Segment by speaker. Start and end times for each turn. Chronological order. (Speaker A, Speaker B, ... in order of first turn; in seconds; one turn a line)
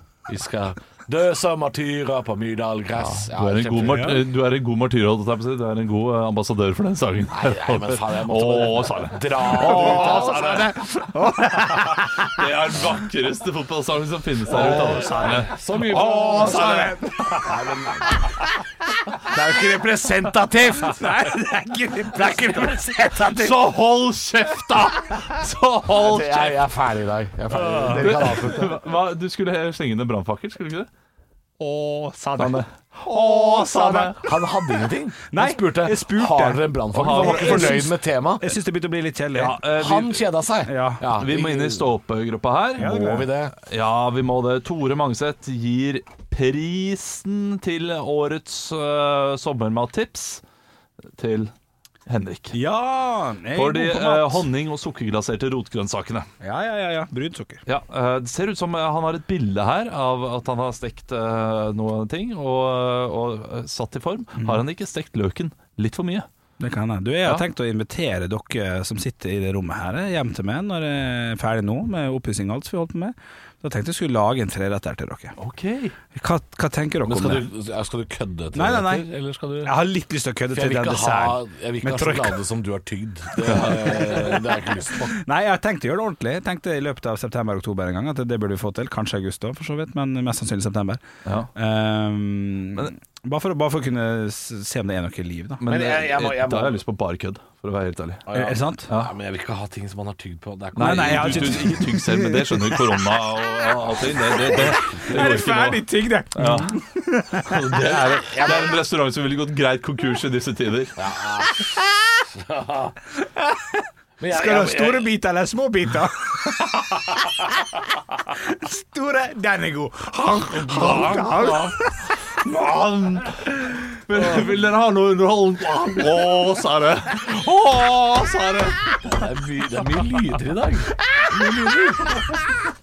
Speaker A: 0.3-4.2
Speaker B: 3.0-10.8
Speaker C: 3.8-4.2
Speaker A: 7.3-10.8
Speaker C: 9.4-12.4
Speaker B: 12.2-17.4
Speaker A: 14.5-18.4
Speaker C: 14.5-18.3
Speaker A: 19.3-21.3
Speaker C: 20.7-23.2
Speaker A: 22.1-23.7
Speaker B: 23.2-26.6
Speaker A: 25.9-28.8
Speaker C: 27.5-28.5
Speaker B: 27.9-30.9
Speaker C: 31.6-34.2
Speaker B: 32.4-34.3
Speaker A: 33.1-38.5
Speaker C: 35.3-39.6
Speaker B: 36.9-37.9
Speaker B: 39.3-40.3
Speaker A: 39.7-41.9
Speaker C: 40.7-41.0
Speaker B: 41.1-50.4
Speaker C: 42.8-43.3
Speaker A: 42.8-43.6
Speaker B: 51.2-51.5
Speaker B: 52.1-52.6
Speaker C: 52.5-54.5
Speaker B: 53.5-56.3
Speaker C: 56.4-57.6
Speaker B: 57.7-66.3
Speaker C: 64.4-64.6
Speaker C: 66.6-75.4
Speaker B: 75.4-76.0
Speaker C: 76.2-77.5
Speaker A: 77.0-79.7
Speaker C: 78.5-79.1
Speaker C: 79.6-82.4
Speaker A: 80.5-85.2
Speaker C: 83.4-91.0
Speaker B: 83.5-84.3
Speaker B: 91.2-91.5
Speaker C: 91.5-95.7
Speaker B: 95.6-98.2
Speaker A: 95.7-96.8
Speaker A: 98.3-101.8
Speaker C: 98.3-98.9
Speaker B: 98.9-99.1
Speaker B: 100.8-106.8
Speaker C: 100.8-103.0
Speaker C: 104.4-107.7
Speaker A: 104.5-105.0
Speaker B: 107.4-111.0
Speaker A: 107.8-108.8
Speaker A: 111.0-111.8
Speaker A: 112.3-113.0
Speaker C: 113.2-122.1
Speaker A: 114.2-115.1
Speaker B: 120.5-121.7
Speaker B: 122.4-129.3
Speaker A: 129.1-132.4
Speaker B: 131.3-132.1